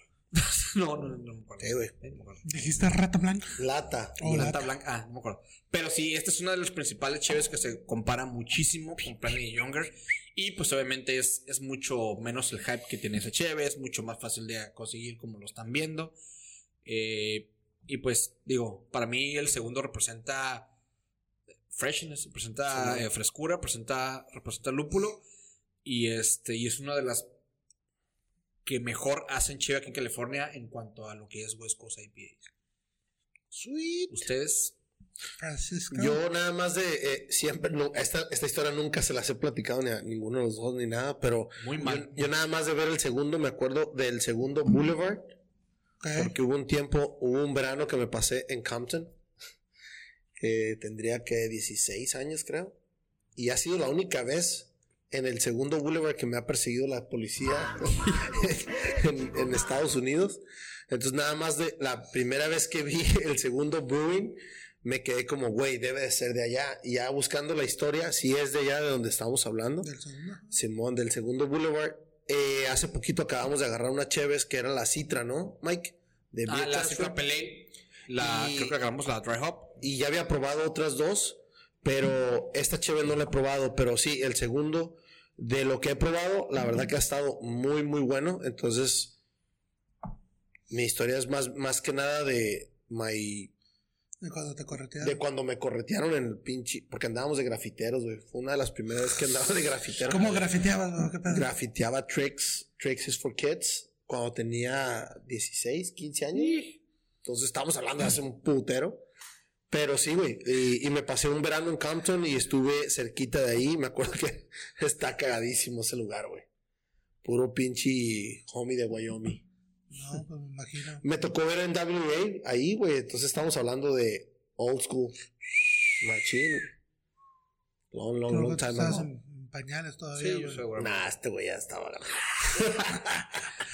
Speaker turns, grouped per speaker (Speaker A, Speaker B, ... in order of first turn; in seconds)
Speaker A: 0.3-2.9, 4.3-16.2, 16.9-20.7, 21.7-25.2, 25.8-27.3, 28.6-32.5, 34.1-34.8, 41.6-42.3, 76.5-79.8, 130.2-131.1
Speaker B: 1.6-1.9, 3.6-4.6, 22.7-23.1, 33.5-34.3, 35.9-45.2, 46.2-49.1, 50.4-52.8, 53.4-69.9, 70.5-77.2, 78.2-78.8, 79.8-89.1, 90.7-93.5, 95.0-100.5, 101.3-106.7, 107.2-109.0, 109.7-116.5, 117.2-119.5, 121.0-125.2, 126.0-126.7, 127.9-129.1, 130.8-133.4
Speaker C: 2.4-3.6, 4.2-4.6, 35.4-36.2, 46.0-46.4, 69.8-70.6, 94.2-95.2, 100.1-101.5, 119.9-121.0, 128.3-130.7